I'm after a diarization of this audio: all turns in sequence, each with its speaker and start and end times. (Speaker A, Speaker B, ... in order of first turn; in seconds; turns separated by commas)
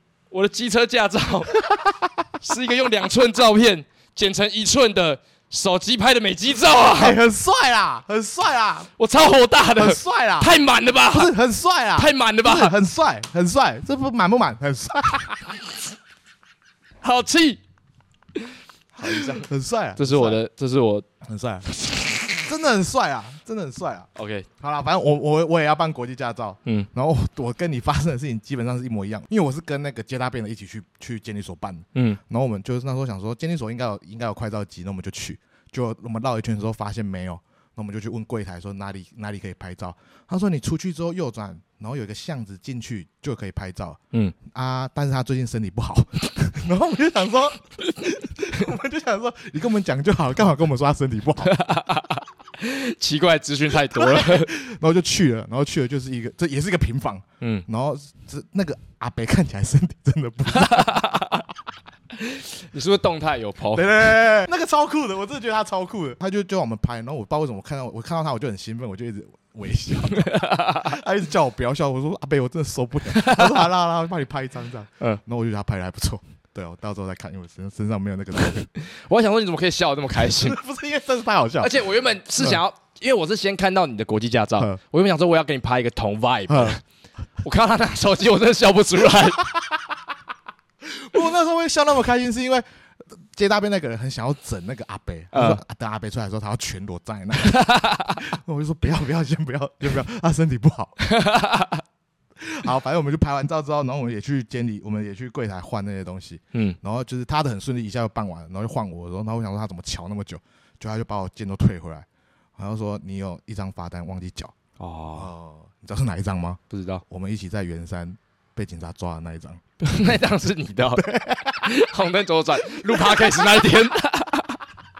Speaker A: 0.3-1.6, Speaker B: 1.6-2.1, Speaker A: 2.4-7.2, Speaker B: 7.0-8.9, Speaker A: 9.0-11.3, Speaker B: 9.7-10.5, Speaker B: 11.1-15.6, Speaker A: 12.0-12.7, Speaker A: 17.0-17.6, Speaker B: 18.9-20.4, Speaker A: 19.0-21.1, Speaker B: 21.2-24.1, Speaker A: 24.1-24.5, Speaker B: 24.6-51.5, Speaker A: 31.9-32.2, Speaker A: 51.4-54.5, Speaker B: 53.9-61.1, Speaker A: 57.4-57.6, Speaker A: 60.5-61.4, Speaker A: 62.1-64.0, Speaker B: 63.7-78.7, Speaker A: 70.1-70.9, Speaker A: 73.1-73.6, Speaker A: 78.7-80.6, Speaker B: 80.3-81.8, Speaker A: 81.6-86.8, Speaker B: 86.5-86.8, Speaker A: 87.4-89.5, Speaker B: 89.4-89.7, Speaker B: 90.8-101.0, Speaker A: 95.3-95.6, Speaker A: 97.4-98.2, Speaker A: 101.0-101.8, Speaker B: 102.4-112.0, Speaker B: 112.6-114.5, Speaker A: 114.8-115.3, Speaker B: 115.1-119.6, Speaker A: 116.7-117.0, Speaker A: 119.8-121.1, Speaker B: 120.9-121.7, Speaker A: 121.6-124.6, Speaker B: 122.7-123.5